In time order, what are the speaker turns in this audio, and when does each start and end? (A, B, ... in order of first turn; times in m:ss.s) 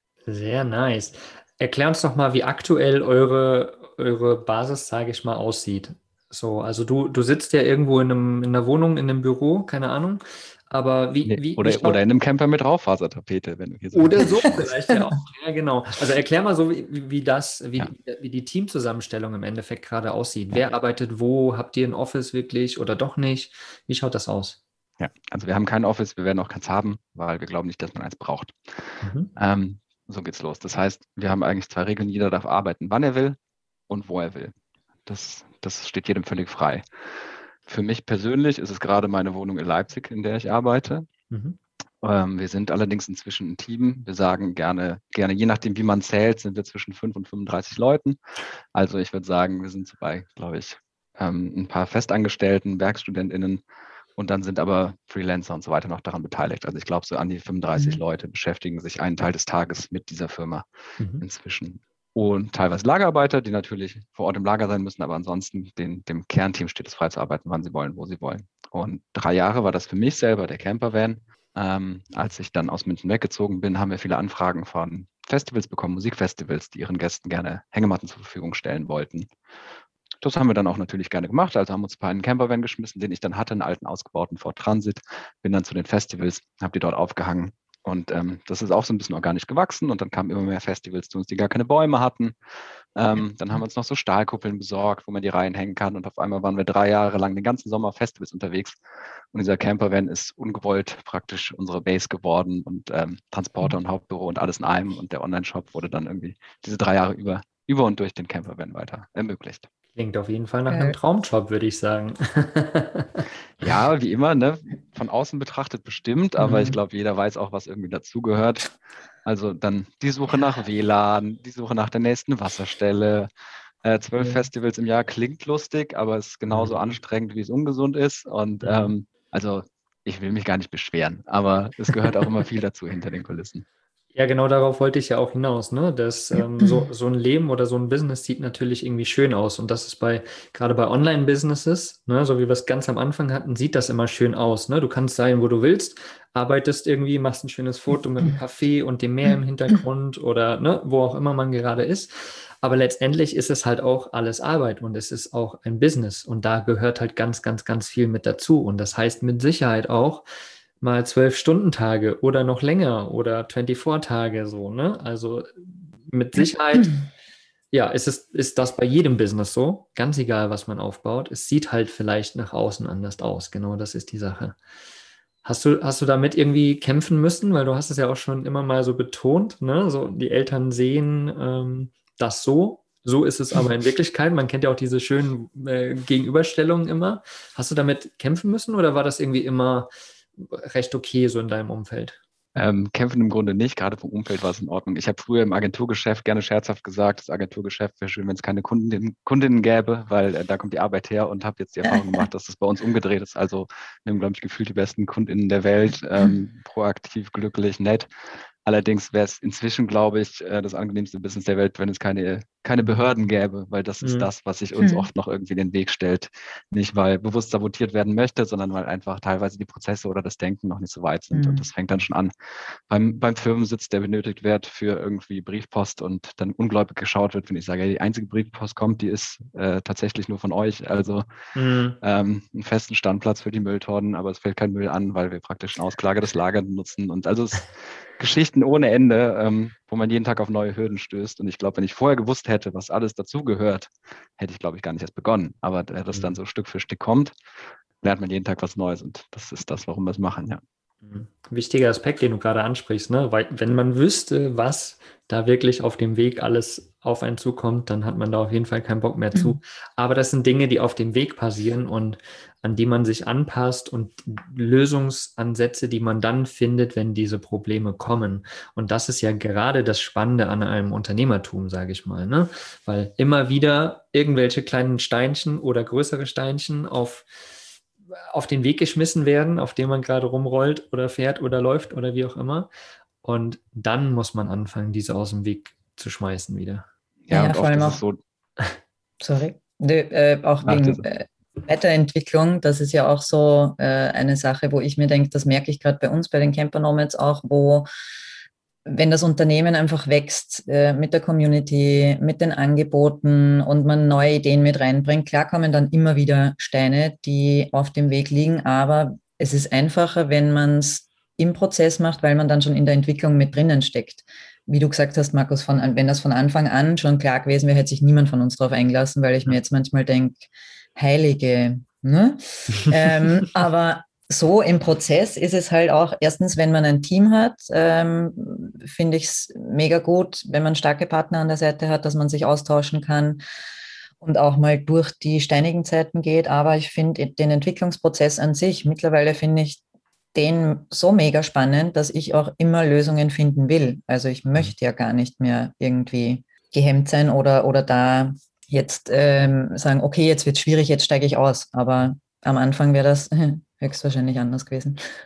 0:00.3-0:12.0 A
0:11.2-0:14.6 B
0:13.9-0:24.6 A
0:25.0-0:33.4 B
0:29.0-0:29.3 A
0:33.9-0:34.5 B
0:35.0-0:36.8 B
0:37.6-0:41.1 B
0:41.3-0:41.6 A
0:42.0-0:48.2 B
0:48.7-0:53.6 B
0:54.2-1:00.6 B
1:01.2-1:19.3 B
1:20.2-1:32.3 B
1:32.9-1:38.8 B
1:39.3-1:49.7 B
1:49.9-1:53.2 A
1:50.7-1:51.0 C
1:53.6-1:58.7 B
1:56.4-1:56.8 C
1:59.2-2:03.3 B
2:03.8-2:13.6 B
2:06.5-2:06.7 A
2:08.6-2:08.9 A
2:14.1-2:40.2 A
2:40.8-2:47.0 A
2:47.7-2:54.6 A
2:55.4-3:12.2 A
3:12.5-3:28.1 B
3:28.6-3:51.2 B
3:34.0-3:34.3 A
3:34.8-3:35.1 C
3:41.3-3:41.7 C
3:51.5-3:52.0 A
3:52.0-4:07.3 B
4:06.1-4:06.4 A
4:08.0-4:10.6 B
4:11.0-4:37.3 A
4:38.3-4:42.7 A
4:43.2-4:46.8 A
4:47.3-4:48.2 B
4:47.3-4:48.0 C
4:49.2-4:57.9 C
4:50.6-4:51.0 B
4:58.9-5:33.4 C
5:34.2-5:39.8 C
5:40.3-5:55.0 C